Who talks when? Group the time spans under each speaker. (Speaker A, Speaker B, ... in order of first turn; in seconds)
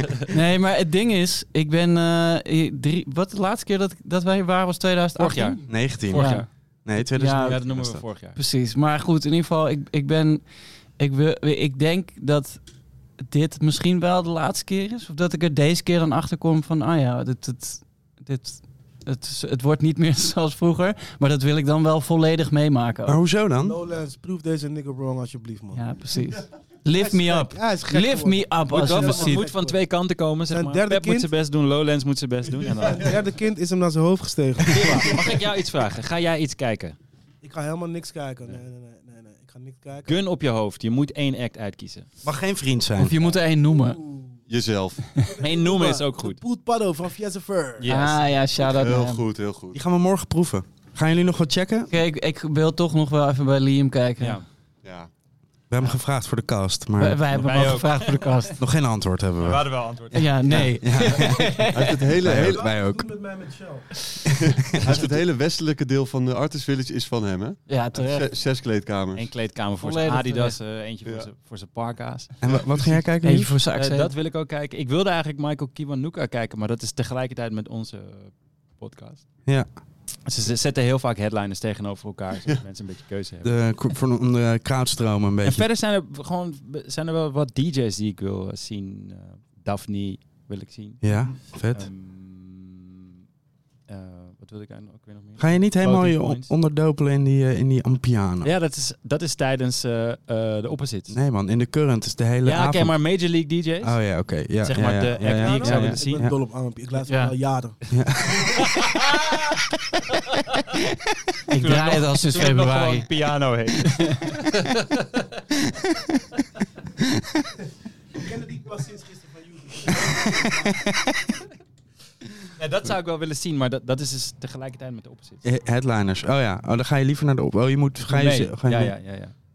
Speaker A: 0.3-7.6, 8.3-23.4, 25.7-29.5, 43.0-44.0, 47.9-49.3, 51.9-54.4, 57.0-58.6, 60.1-61.7, 67.7-68.4, 73.2-74.1, 111.5-113.1
Speaker B: 5.2-8.1, 23.1-23.8, 42.2-43.1, 49.7-51.9, 55.7-57.8, 58.6-61.6, 62.2-63.4, 64.8-65.1, 72.4-73.6, 79.5-79.7, 83.4-85.7, 91.0-91.9, 95.4-98.5, 101.1-106.3, 107.9-108.4, 125.4-129.0
Speaker C: 5.2-8.4, 28.8-33.4, 34.7-37.0, 40.0-42.2, 45.3-46.4, 47.8-48.6, 54.2-54.5, 57.3-58.5, 59.4-61.2, 69.1-72.5, 73.6-79.3, 80.2-83.8, 85.4-93.3, 93.8-96.5, 98.4-101.2, 102.4-107.7, 111.5-114.3, 122.6-125.4, 128.0-129.4
Speaker D: 23.5-26.3, 26.9-31.3, 32.9-35.4, 37.4-40.2, 43.2-48.0, 62.4-63.9, 70.0-70.5, 105.2-107.8, 118.2-120.7
Speaker E: 32.6-33.3, 44.5-45.3, 48.5-49.8, 54.8-55.1, 61.7-62.8, 64.7-69.5, 71.0-71.3